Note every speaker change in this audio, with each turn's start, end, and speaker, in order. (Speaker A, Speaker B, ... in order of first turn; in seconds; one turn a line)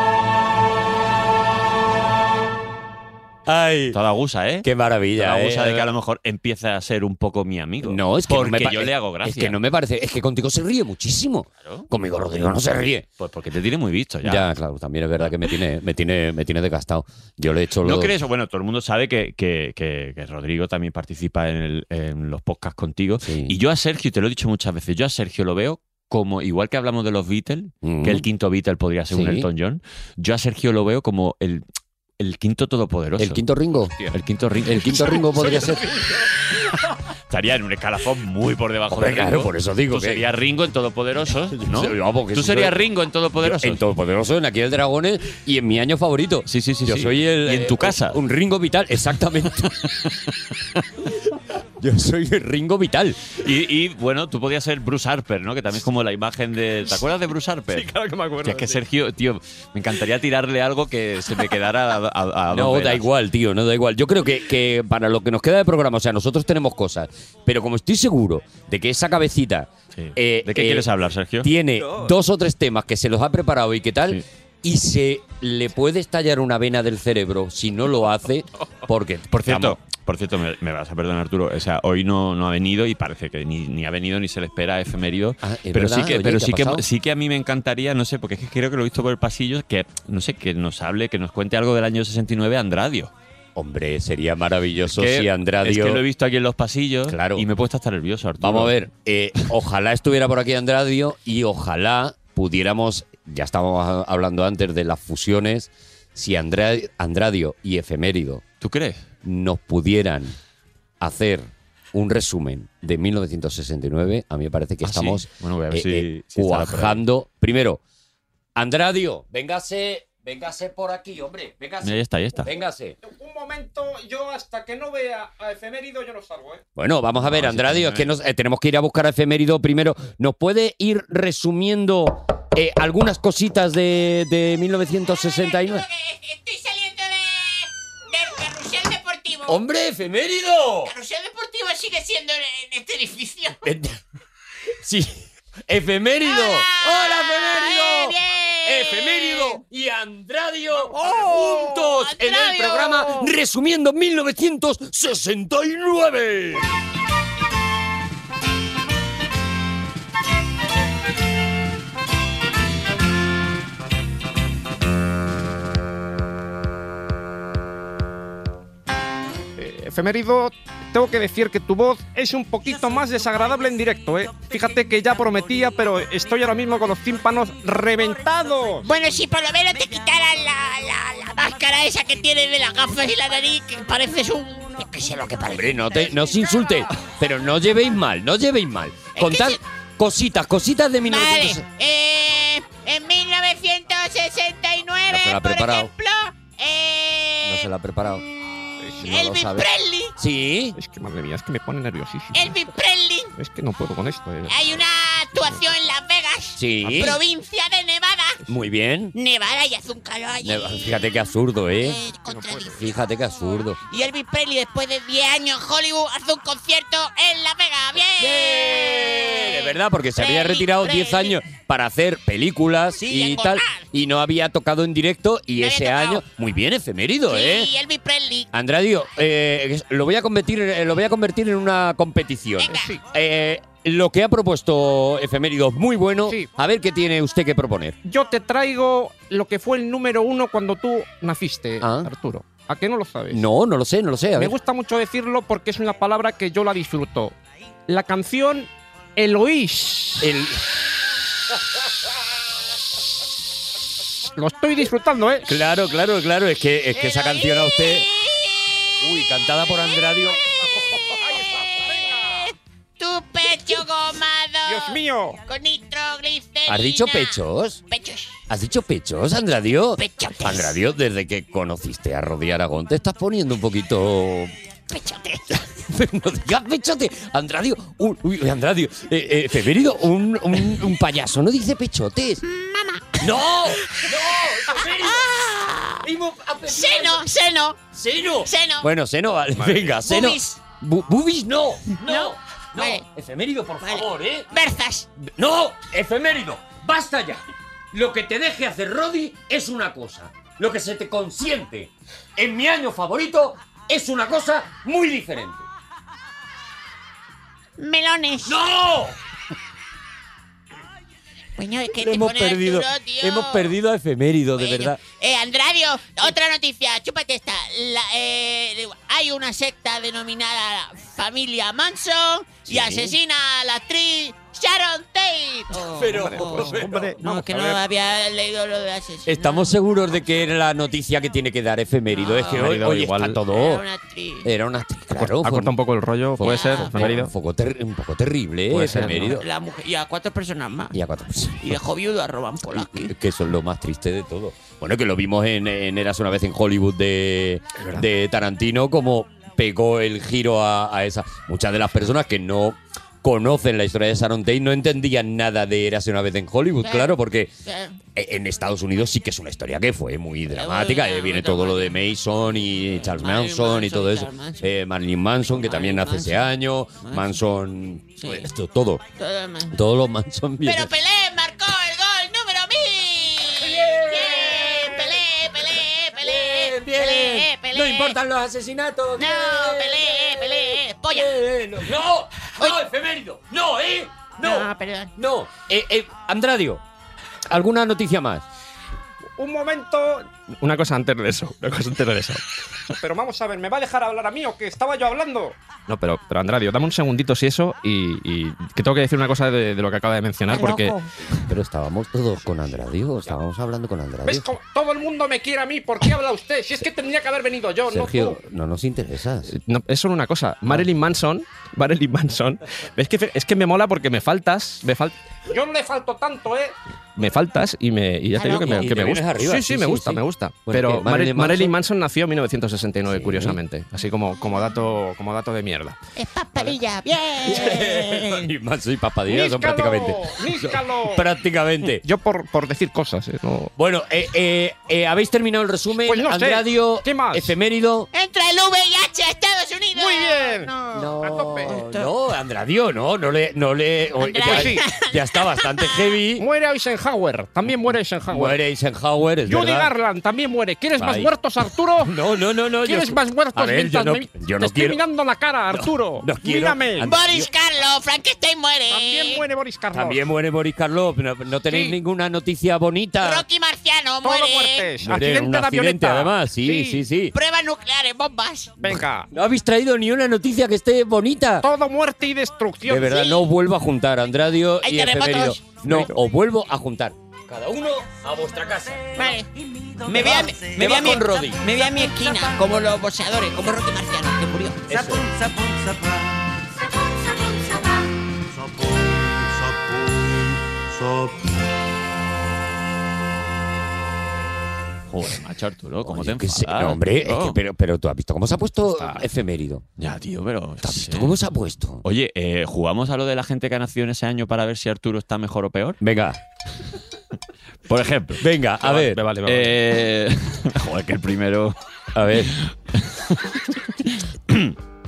Speaker A: 3.5-4.0
Speaker B: 3.9-9.6
Speaker A: 4.6-5.9
Speaker A: 7.8-13.1
Speaker B: 13.2-14.5
Speaker A: 14.2-18.1
Speaker B: 17.8-31.6
Speaker A: 23.2-23.6
Speaker A: 27.8-28.2
Speaker A: 29.1-29.5
Speaker B: 32.2-33.4
Speaker A: 33.2-34.0
Speaker B: 34.0-35.6
Speaker A: 34.6-35.9
Speaker B: 37.3-43.8
Speaker A: 38.9-40.3
Speaker A: 41.5-42.8
Speaker A: 43.4-49.8
Speaker B: 46.5-48.2
Speaker A: 51.8-53.2
Speaker B: 53.4-57.9
Speaker C: 57.9-58.4
Speaker B: 58.4-63.1
Speaker A: 62.5-70.9
Speaker B: 69.9-71.5
Speaker A: 71.4-79.8
Speaker B: 79.3-93.1
Speaker A: 85.4-86.8
Speaker A: 93.5-96.0
Speaker B: 94.9-98.7
Speaker A: 97.1-97.5
Speaker A: 98.4-108.4
Speaker B: 108.6-109.0
Speaker A: 109.2-110.3
Speaker A: 111.0-117.8
Speaker B: 114.8-117.0
Speaker A: 118.5-123.0
Speaker B: 121.8-122.5
Speaker C: 123.0-126.6
Speaker A: 126.8-135.8
Speaker B: 127.2-128.1
Speaker D: 135.1-139.6
Speaker A: 139.5-140.9
Speaker D: 140.8-143.6
Speaker A: 143.6-144.0
Speaker A: 144.8-156.8
Speaker D: 146.2-149.6
Speaker D: 150.9-153.3
Speaker C: 169.6-178.9
Speaker D: 178.8-185.8
Speaker A: 185.4-191.6
Speaker D: 189.2-189.6
Speaker D: 191.1-197.7
Speaker A: 195.1-195.9
Speaker A: 197.4-198.2
Speaker C: 198.8-199.2
Speaker A: 199.0-199.7
Speaker D: 199.0-200.1
Speaker A: 200.2-200.8
Speaker C: 200.8-202.5
Speaker D: 202.3-203.3
Speaker C: 203.4-204.5
Speaker D: 204.5-208.4
Speaker A: 206.6-207.2
Speaker A: 208.5-209.1
Speaker D: 209.1-211.0
Speaker A: 210.4-212.0
Speaker D: 211.8-212.8
Speaker C: 212.2-212.9
Speaker A: 212.7-213.8
Speaker D: 213.9-221.4
Speaker A: 218.2-227.7
Speaker D: 223.0-223.8
Speaker D: 225.6-226.2
Speaker D: 227.3-228.5
Speaker A: 228.5-238.0
Speaker D: 232.6-232.9
Speaker C: 232.7-233.0
Speaker C: 238.0-243.4
Speaker A: 241.8-242.1
Speaker A: 243.3-244.5
Speaker C: 244.3-247.3
Speaker C: 247.9-250.3
Speaker A: 250.2-250.6
Speaker C: 254.3-255.5
Speaker A: 255.4-258.1
Speaker D: 256.9-259.1
Speaker A: 259.0-261.0
Speaker D: 259.7-260.0
Speaker D: 260.9-268.4
Speaker C: 261.1-262.5
Speaker C: 264.7-265.4
Speaker A: 266.7-267.8
Speaker A: 268.5-274.5
Speaker D: 270.0-270.7
Speaker D: 274.9-275.6
Speaker A: 275.8-282.4
Speaker D: 282.4-283.2
Speaker A: 283.2-285.3
Speaker D: 284.8-286.0
Speaker A: 286.0-287.3
Speaker D: 286.7-287.8
Speaker A: 287.9-294.5
Speaker D: 288.4-288.9
Speaker D: 289.9-290.6
Speaker D: 292.0-293.0
Speaker D: 293.8-295.1
Speaker A: 295.2-305.6
Speaker D: 307.8-308.6
Speaker A: 308.4-309.2
Speaker D: 311.6-313.7
Speaker A: 311.9-315.0
Speaker D: 314.6-329.7
Speaker A: 322.7-323.2
Speaker A: 325.8-327.5
Speaker C: 326.1-327.8
Speaker A: 329.2-333.8
Speaker D: 332.1-332.7
Speaker E: 332.5-333.4
Speaker D: 333.5-334.5
Speaker A: 334.4-335.7
Speaker E: 335.2-337.3
Speaker A: 336.4-339.4
Speaker D: 336.4-337.1
Speaker E: 338.7-339.4
Speaker D: 338.9-341.0
Speaker A: 340.9-341.8
Speaker D: 341.6-343.1
Speaker A: 342.6-357.5
Speaker D: 356.8-358.0
Speaker A: 358.1-369.0
Speaker D: 360.5-361.9
Speaker D: 363.0-364.6
Speaker D: 365.6-366.5
Speaker D: 369.1-369.8
Speaker A: 369.7-370.9
Speaker D: 370.6-378.1
Speaker A: 373.6-375.2
Speaker A: 376.2-386.8
Speaker D: 379.2-381.3
Speaker D: 384.4-385.1
Speaker A: 387.5-388.4
Speaker C: 389.4-390.3
Speaker E: 390.6-392.4
Speaker C: 392.9-395.6
Speaker E: 395.9-400.9
Speaker D: 400.5-401.1
Speaker A: 401.3-404.5
Speaker C: 404.2-408.4
Speaker A: 407.9-409.5
Speaker E: 409.5-415.1
Speaker C: 415.5-416.7
Speaker E: 417.1-426.0
Speaker D: 418.4-419.1
Speaker A: 418.6-421.7
Speaker A: 423.1-423.6
Speaker D: 426.1-428.4
Speaker A: 427.4-432.0
Speaker C: 429.3-431.3
Speaker C: 432.0-433.7
Speaker A: 433.8-438.1
Speaker C: 436.0-437.5
Speaker D: 438.1-441.1
Speaker C: 439.9-441.8
Speaker A: 440.9-446.4
Speaker D: 441.7-442.1
Speaker D: 444.2-446.0
Speaker C: 444.4-444.8
Speaker C: 446.4-448.6
Speaker A: 447.7-449.9
Speaker C: 449.4-452.1
Speaker A: 451.0-451.3
Speaker A: 452.0-455.0
Speaker C: 452.8-457.1
Speaker A: 455.7-457.5
Speaker D: 457.0-459.4
Speaker C: 458.9-460.2
Speaker A: 459.9-463.4
Speaker C: 461.7-462.0
Speaker D: 463.2-464.9
Speaker C: 464.2-467.0
Speaker A: 465.0-467.4
Speaker D: 467.3-468.9
Speaker C: 468.8-469.3
Speaker A: 469.3-471.7
Speaker C: 471.6-473.2
Speaker A: 472.9-479.4
Speaker D: 474.8-475.9
Speaker D: 479.1-479.5
Speaker A: 480.0-481.6
Speaker D: 480.0-485.1
Speaker A: 484.9-485.6
Speaker A: 489.8-490.4
Speaker B: 495.1-497.6
Speaker A: 496.0-499.8
Speaker E: 498.9-499.2
Speaker B: 500.0-501.4
Speaker A: 500.8-502.0
Speaker B: 502.0-506.0
Speaker A: 506.0-506.4
Speaker B: 507.9-511.8
Speaker A: 508.4-509.2
Speaker E: 508.8-509.8
Speaker A: 512.1-512.6
Speaker B: 512.5-514.8